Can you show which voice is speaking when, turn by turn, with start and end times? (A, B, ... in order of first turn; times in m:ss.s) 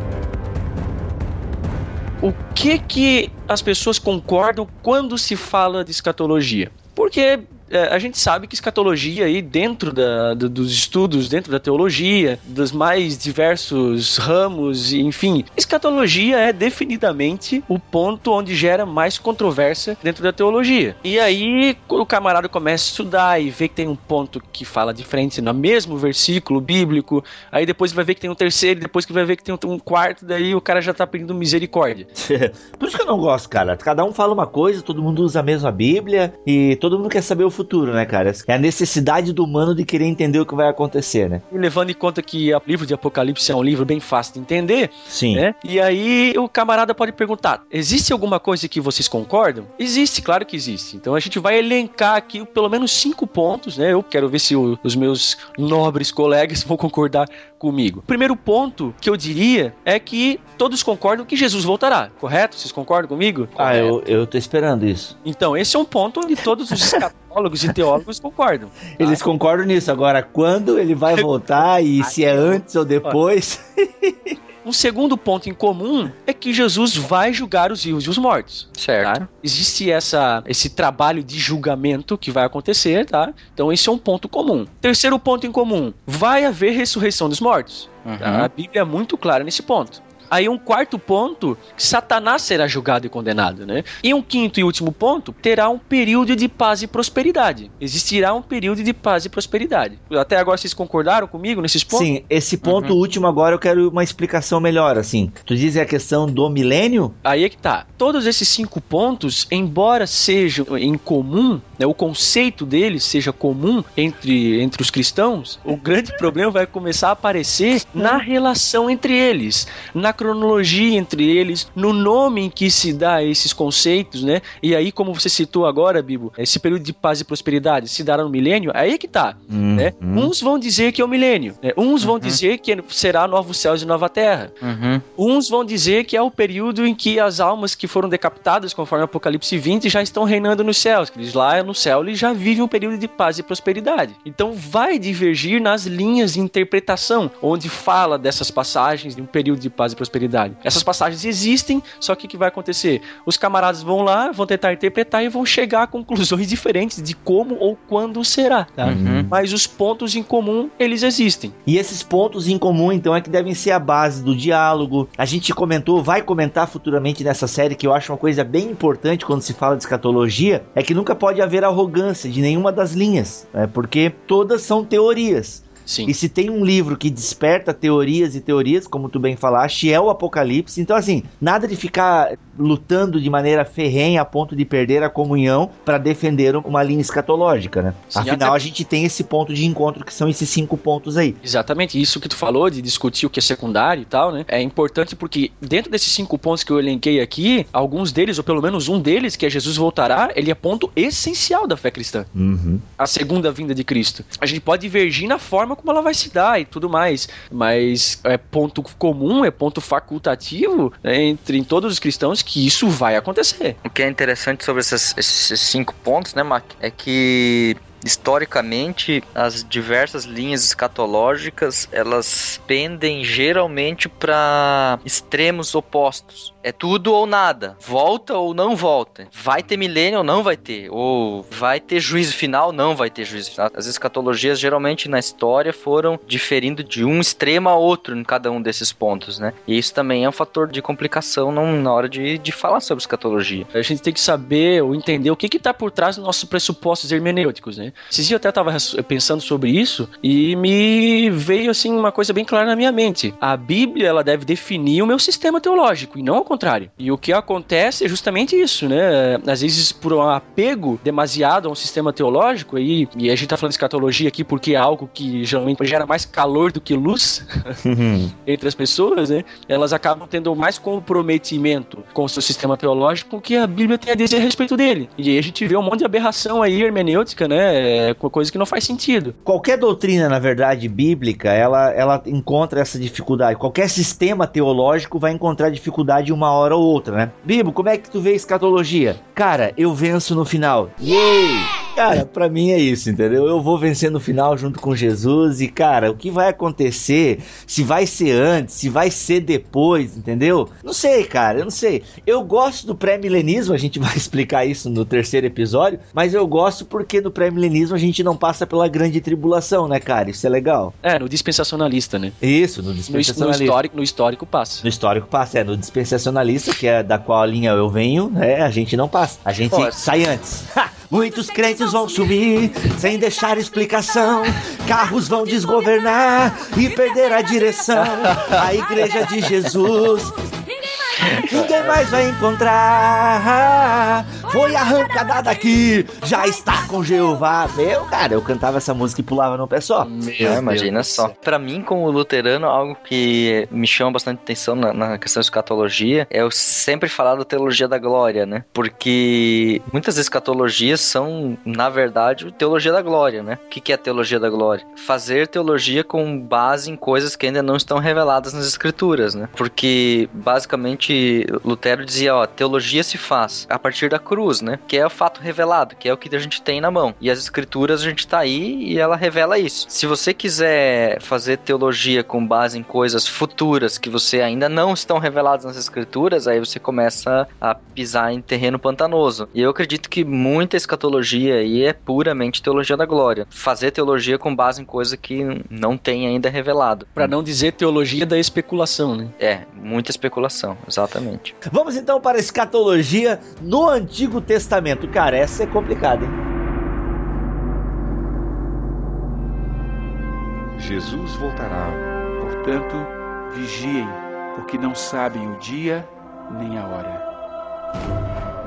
0:02.2-0:32.1 A
0:32.2-0:41.4 B
0:41.5-1:04.0 A
0:45.1-0:45.5 B
1:03.6-1:05.2 B
1:05.2-1:09.2 A
1:09.0-1:14.4 B
1:12.0-1:13.2 A
1:14.6-1:42.1 A
1:18.8-1:19.2 C
1:28.0-1:28.5 C
1:41.9-1:47.2 B
1:42.6-1:42.9 A
1:47.2-2:14.5 A
2:09.5-2:10.3 B
2:12.0-2:12.4 C
2:14.6-2:15.0 C
2:15.2-2:41.6 A
2:38.8-2:39.3 C
2:38.9-2:39.3 B
2:41.7-3:11.4 B
2:55.9-2:56.2 A
3:08.1-3:08.6 A
3:11.4-3:22.3 A
3:22.4-3:22.8 B
3:23.0-3:33.8 A
3:33.8-4:03.7 C
4:03.8-4:27.8 A
4:27.8-4:28.3 B
4:28.5-4:39.4 A
4:39.5-5:11.0 B
5:11.0-5:12.4 A
5:12.4-5:13.8 B
5:13.1-5:14.9 A
5:14.8-5:30.3 B
5:28.2-5:28.6 A
5:31.4-5:40.1 B
5:40.0-5:41.3 A
5:40.4-6:27.3 C
6:27.2-6:29.3 A
6:29.4-6:31.5 C
6:31.7-6:36.4 B
6:40.8-6:47.2 D